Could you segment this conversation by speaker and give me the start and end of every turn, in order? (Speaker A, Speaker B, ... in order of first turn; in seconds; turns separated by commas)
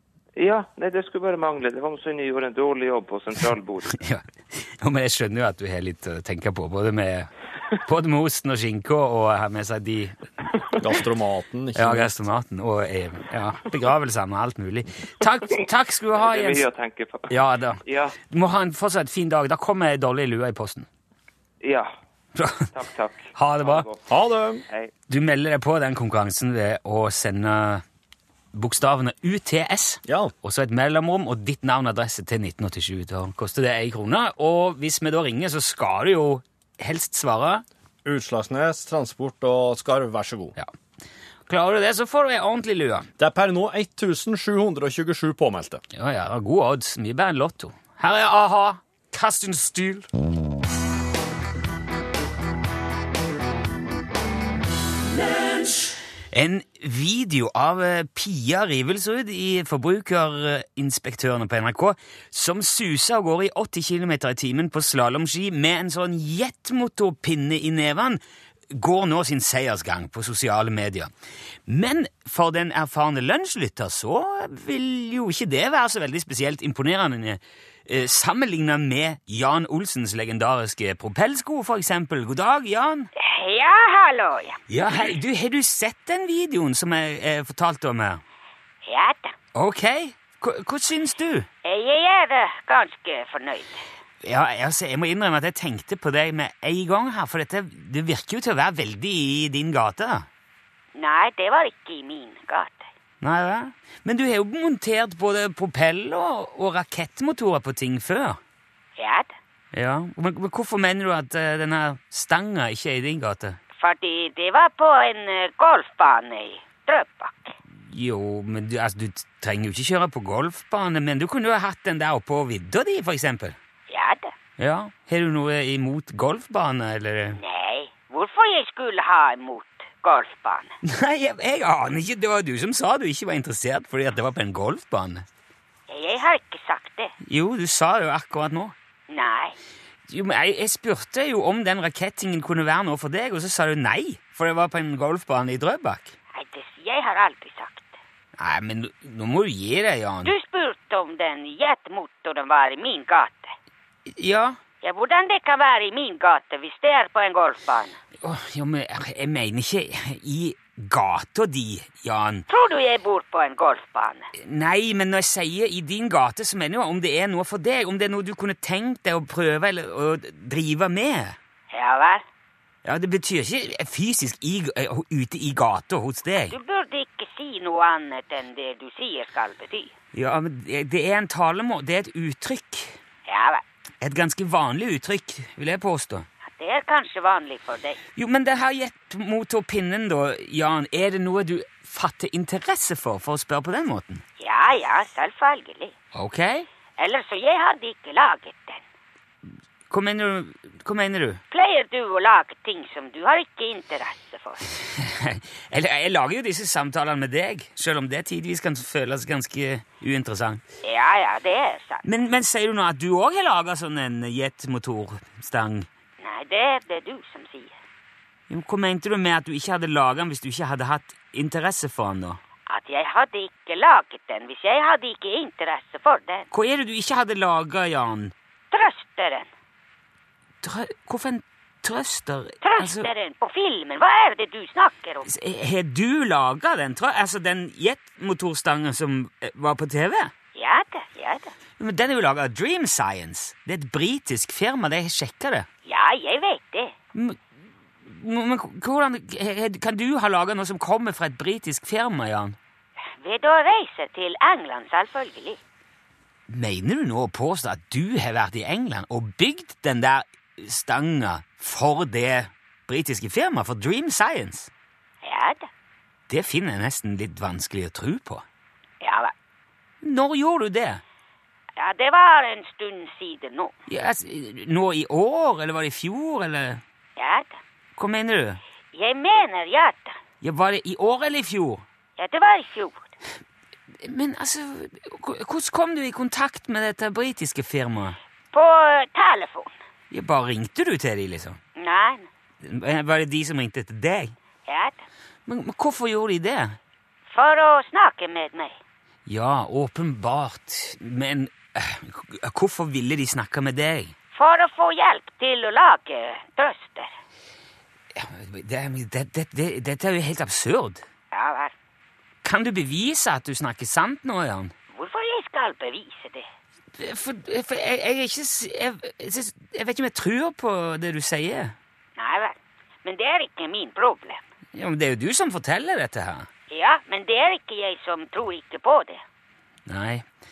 Speaker A: 0.3-4.0, Speaker B: 4.0-7.3, Speaker B: 7.8-10.2, Speaker C: 10.8-12.1, Speaker B: 11.7-16.6, Speaker A: 16.1-17.3, Speaker B: 17.3-20.9, Speaker A: 17.8-18.2, Speaker A: 21.6-21.9, Speaker B: 22.4-22.7, Speaker A: 22.7-24.1, Speaker B: 23.3-23.9, Speaker C: 24.1-24.6, Speaker B: 25.1-27.8, Speaker B: 28.5-37.6, Speaker C: 30.0-30.3, Speaker C: 38.0-40.5, Speaker B: 41.5-43.1, Speaker C: 43.2-45.8, Speaker B: 45.9-50.1, Speaker B: 56.3-68.2, Speaker B: 68.7-71.1, Speaker B: 71.7-83.1, Speaker D: 83.2-84.6, Speaker B: 84.7-88.2, Speaker D: 88.8-89.3, Speaker B: 89.5-91.5, Speaker D: 91.6-93.8, Speaker B: 94.2-100.3, Speaker D: 100.9-102.8, Speaker B: 103.2-108.4, Speaker D: 109.0-109.3, Speaker B: 109.7-113.6, Speaker D: 113.8-117.5, Speaker B: 117.9-123.5, Speaker D: 123.9-124.3, Speaker B: 124.6-127.4, Speaker D: 127.4-130.7, Speaker B: 130.8-135.2, Speaker D: 135.9-137.1, Speaker B: 137.2-138.7, Speaker D: 139.1-139.6, Speaker B: 140.1-146.1, Speaker D: 146.3-147.9, Speaker B: 148.4-150.3, Speaker D: 150.2-153.5, Speaker B: 154.1-154.6, Speaker D: 154.8-158.0, Speaker B: 158.2-162.4, Speaker D: 162.5-164.3, Speaker B: 164.3-171.4, Speaker D: 171.7-172.2, Speaker B: 172.8-176.6, Speaker D: 176.5-179.9, Speaker B: 180.1-183.0, Speaker D: 183.3-183.6, Speaker B: 184.0-186.2, Speaker D: 186.5-188.0, Speaker B: 188.2-194.2, Speaker D: 194.4-195.9, Speaker B: 196.1-196.7, Speaker D: 197.0-198.8, Speaker B: 199.9-201.4, Speaker D: 201.5-204.7, Speaker B: 204.9-210.6, Speaker D: 210.8-212.0, Speaker B: 212.0-215.9, Speaker D: 216.2-217.7, Speaker B: 218.5-222.4, Speaker D: 222.7-226.5, Speaker B: 226.5-228.3, Speaker D: 228.7-229.5, Speaker B: 230.6-233.1, Speaker D: 232.6-235.3, Speaker B: 235.2-240.3, Speaker D: 240.5-241.5, Speaker B: 241.8-245.7, Speaker D: 245.8-246.9, Speaker B: 247.1-247.4, Speaker B: 248.0-252.6, Speaker D: 253.2-255.6, Speaker B: 256.5-264.7, Speaker D: 265.2-265.7, Speaker B: 266.3-268.4, Speaker D: 269.0-269.3, Speaker B: 270.0-271.0, Speaker D: 271.8-273.7, Speaker B: 273.9-276.8, Speaker D: 277.2-277.6, Speaker B: 277.9-278.6, Speaker D: 278.9-280.2, Speaker B: 280.4-281.8, Speaker D: 282.2-283.1, Speaker B: 284.0-288.2, Speaker D: 288.5-289.7, Speaker B: 290.1-291.6, Speaker D: 291.8-292.3, Speaker B: 292.6-294.3, Speaker D: 294.7-295.0, Speaker B: 295.4-296.8, Speaker D: 297.3-298.8, Speaker B: 299.2-304.1, Speaker D: 304.3-307.1, Speaker B: 308.1-311.0, Speaker D: 311.3-311.7, Speaker B: 312.4-314.7, Speaker D: 314.9-316.5, Speaker B: 317.0-321.8, Speaker D: 322.2-324.4, Speaker B: 324.7-326.5, Speaker D: 326.7-329.2, Speaker B: 329.9-330.2